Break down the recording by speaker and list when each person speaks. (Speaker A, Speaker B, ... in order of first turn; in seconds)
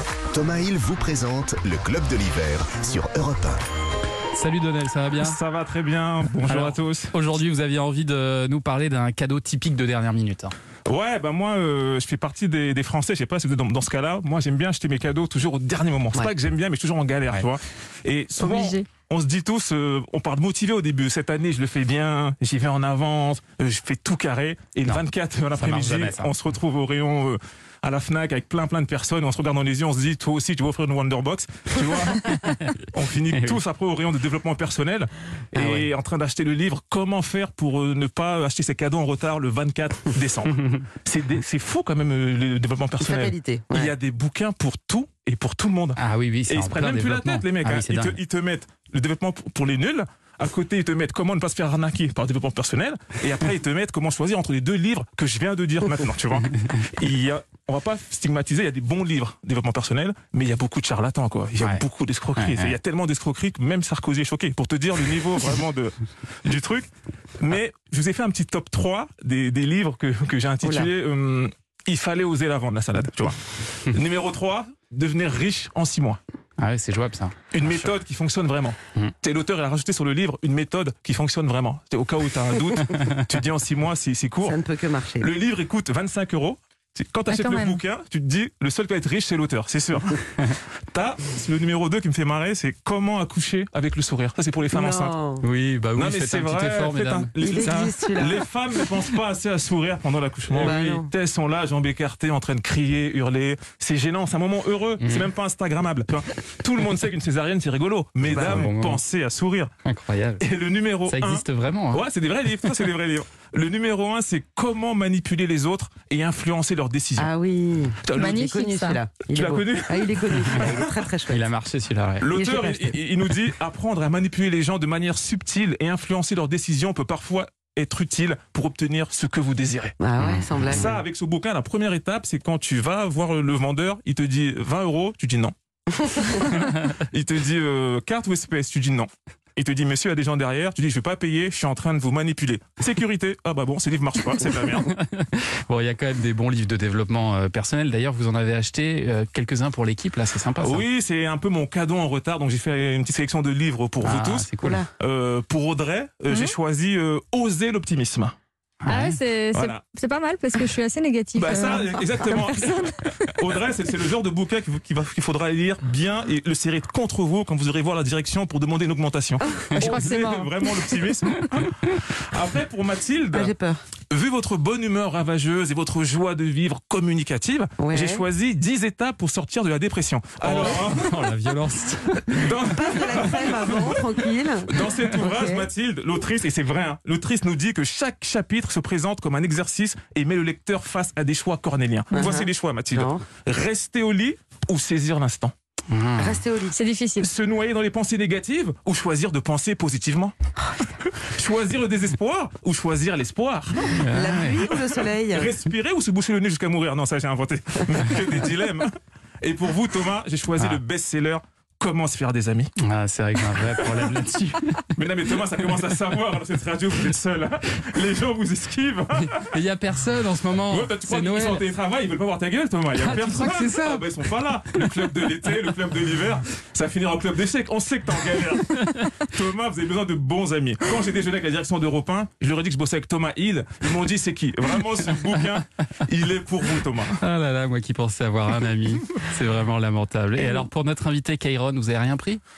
Speaker A: 0.3-3.6
Speaker B: 4.3-5.4, 6.4-10.5, 25.6-26.3, 32.4-32.6, 46.0-48.2, 62.4-62.8, 76.6-77.9, 95.4-97.9, 105.0-105.3, 108.3-109.0, 109.8-110.4, 111.1-112.0, 121.3-122.3, 130.2-130.9, 144.8-150.8, 154.0-154.8, 158.8-159.2, 180.4-182.3, 195.9-196.4, 204.0-204.7, 212.8-214.9, 219.2-221.7, 223.0-224.1, 237.2-242.4
Speaker C: 5.2-7.2, 10.9-66.9, 67.4-76.2, 77.5-84.6, 85.2-95.2, 96.0-109.7, 110.4-117.3, 118.0-118.4, 119.3-121.0, 122.2-130.0, 130.6-144.9, 150.6-158.3, 159.5-159.8, 161.3-173.5, 174.1-181.2, 182.2-195.5, 197.2-200.3, 201.2-204.0, 205.3-212.7, 213.6-214.2, 214.9-219.5, 220.7-237.2
Speaker D: 18.4-18.8, 87.3-87.8, 118.2-119.0, 158.9-162.2, 169.8-171.0, 196.7-197.3
Speaker E: 35.5-35.9, 43.0-43.9, 70.6-70.9, 84.4-85.3, 94.7-95.5, 97.4-98.4, 100.5-101.1, 108.2-108.7, 117.2-121.5, 122.3-123.0, 130.0-130.9, 154.6-154.9, 161.5-162.9, 169.5-170.2, 173.3-173.8, 177.8-178.3, 180.6-180.8, 182.5-185.7, 192.1-193.2, 196.2-196.8, 204.1-205.5